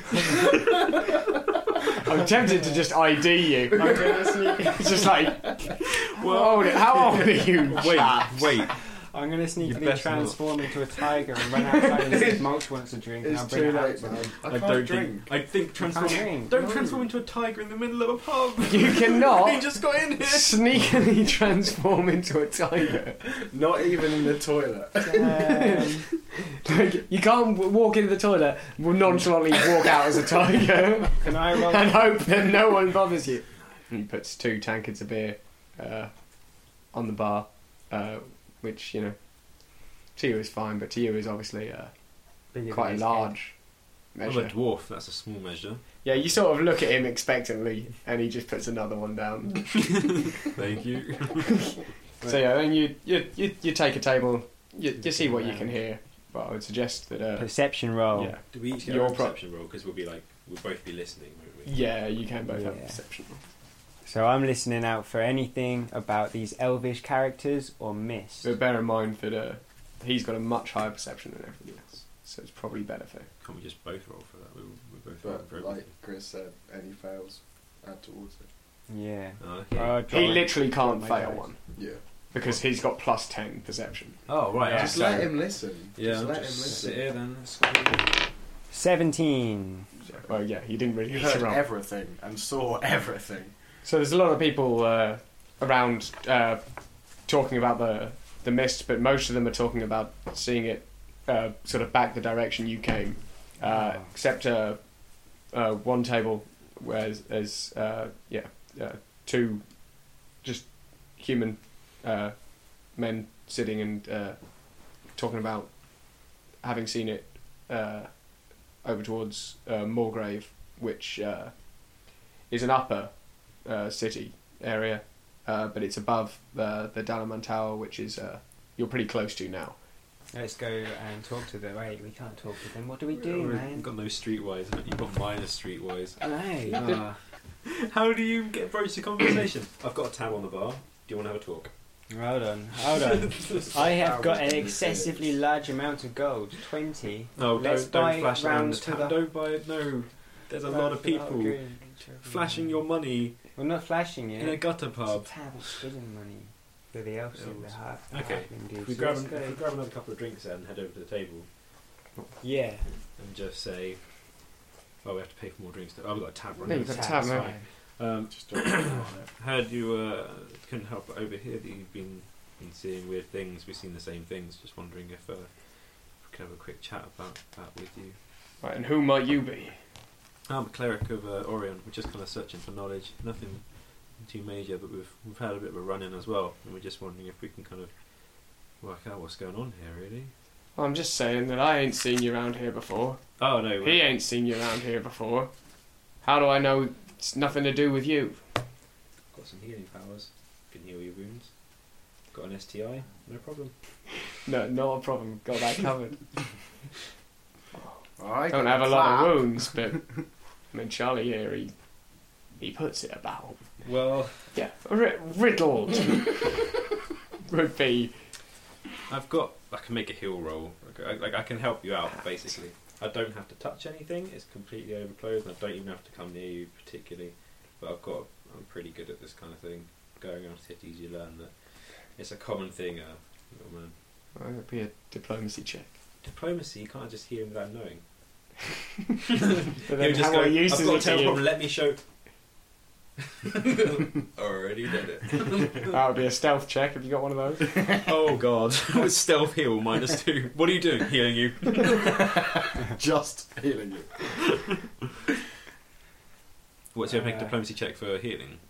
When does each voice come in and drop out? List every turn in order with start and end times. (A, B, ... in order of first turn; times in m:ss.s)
0:02.0-0:04.0 A
0:03.7-0:04.9 B
0:03.7-0:04.8 C
0:04.6-0:08.5 A
0:06.1-0:08.9 D
0:08.9-0:14.3 C
0:09.6-0:10.7 D
0:12.0-0:12.4 B
0:13.2-0:15.3 B
0:14.4-0:20.7 D
0:15.8-0:17.0 C
0:18.7-0:23.2 A
0:23.2-0:25.4 B
0:25.0-0:26.1 C
0:25.3-0:43.6 A
0:31.2-0:32.0 C
0:42.5-0:43.3 C
0:44.1-0:44.5 A
0:44.2-0:45.8 D
0:46.0-0:50.3 A
0:50.4-0:52.4 D
0:52.2-0:57.5 A
0:55.0-0:55.7 C
0:57.4-0:58.4 C
0:58.1-0:59.3 A
0:58.5-1:01.8 D
1:01.6-1:03.4 A
1:02.5-1:03.0 C
1:04.0-1:08.5 C
1:08.4-1:13.3 A
1:13.4-1:15.9 D
1:15.2-1:18.5 B
1:18.9-1:21.5 C
1:19.4-1:20.1 D
1:20.1-1:21.7 A
1:21.7-1:22.0 B
1:22.3-1:25.3 A
1:24.3-1:25.3 D
1:24.7-1:27.0 B
1:26.0-1:28.1 D
1:28.7-1:29.9 C
1:30.2-1:31.6 A
1:31.1-1:33.5 B
1:33.8-2:09.8 A
1:43.6-1:44.1 C
2:10.3-2:13.9 C
2:13.1-2:21.7 D
2:16.2-2:16.9 C
2:16.7-2:17.0 A
2:22.1-2:29.2 C
2:22.8-2:23.9 D
2:23.7-2:25.4 B
2:27.4-2:33.6 D
2:30.7-2:32.8 C
2:33.5-2:39.6 C
2:34.4-2:35.7 D
2:37.3-2:41.5 D
2:42.4-2:42.9 C
2:43.2-2:58.2 D
2:46.6-2:47.6 C
2:46.7-2:47.5 A
2:48.3-2:49.3 B
2:58.6-2:59.8 A
3:00.5-3:10.3 D
3:10.8-3:15.5 A
3:13.4-3:14.1 D
3:16.2-3:18.4 A
3:19.3-3:21.5 D
3:22.3-3:23.7 D
3:24.4-3:26.5 A
3:28.2-3:30.0 B
3:28.5-3:30.2 A
3:30.7-3:31.7 A
3:32.6-3:33.6 A
3:33.8-3:34.5 D
3:34.5-3:36.8 A
3:37.4-3:38.1 A
3:39.1-3:53.9 D
3:54.3-3:55.9 A
3:56.2-3:58.0 D
3:59.7-4:02.0 D
3:59.8-4:01.4 A
4:03.4-4:05.9 D
4:05.9-4:07.8 A
4:07.9-4:12.4 D
4:12.3-4:14.2 B
4:16.9-4:18.6 D
4:17.1-4:17.5 C